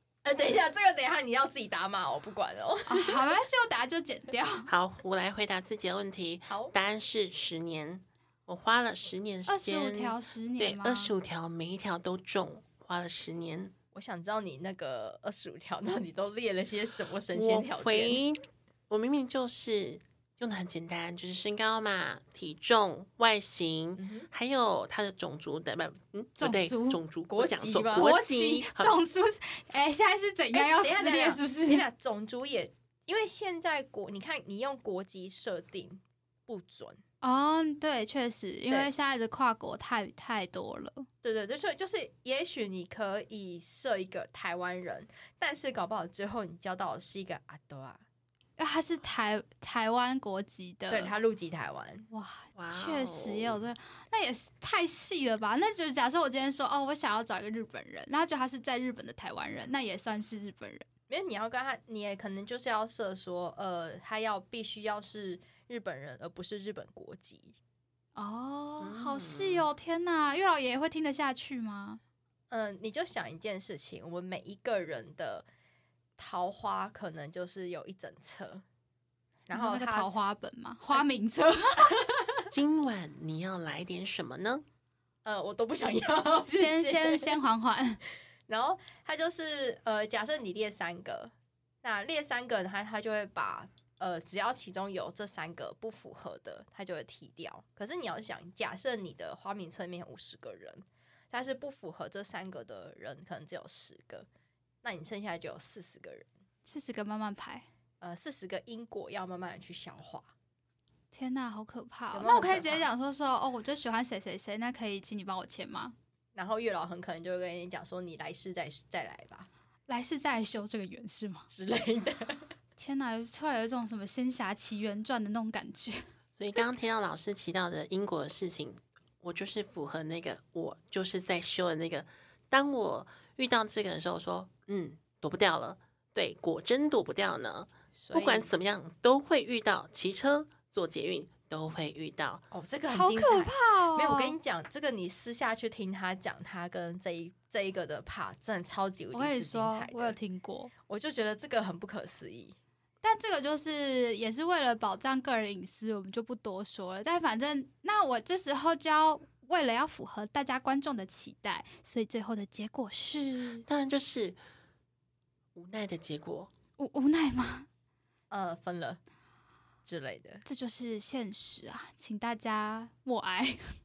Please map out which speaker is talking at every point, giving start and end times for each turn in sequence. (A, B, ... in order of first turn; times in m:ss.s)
0:00.2-0:03.2 A
0:02.9-0:04.7 B
0:04.7-0:13.7 C
0:06.5-0:06.7 A
0:09.5-0:11.1 B
0:13.9-0:18.2 A
0:17.3-0:29.0 C
0:24.0-0:24.3 A
0:26.4-0:27.0 B
0:27.3-0:28.1 A
0:28.0-0:31.8 B
0:30.5-0:37.0 A
0:37.2-0:41.1 B
0:41.2-0:48.0 A
0:48.6-0:51.1 B
0:50.9-0:52.1 A
0:52.1-1:00.9 B
0:52.6-0:53.6 C
1:01.1-1:07.6 A
1:08.2-1:12.0 B
1:08.8-1:09.7 C
1:12.5-1:15.5 A
1:16.2-1:18.6 A
1:19.5-1:20.2 A
1:19.5-1:22.0 B
1:21.9-1:22.4 A
1:22.5-1:24.6 C
1:25.2-1:27.4 A
1:26.5-1:28.0 B
1:28.5-1:44.3 A
1:44.8-1:46.3 A
1:46.7-1:47.7 B
1:48.0-1:50.3 A
1:51.1-1:56.0 B
1:52.1-1:52.9 A
1:56.4-1:59.5 A
1:59.9-2:01.5 B
2:01.5-2:02.5 A
2:02.8-2:06.0 B
2:06.4-2:22.5 C
2:17.9-2:18.5 A
2:22.5-2:30.2 A
2:22.9-2:24.4 B
2:29.1-2:30.7 B
2:30.9-2:32.6 A
2:33.0-2:43.6 B
2:43.7-2:44.4 C
2:45.6-2:46.5 C
2:46.8-2:47.7 B
2:48.3-2:49.0 A
2:49.8-2:50.4 A
2:50.4-2:53.8 B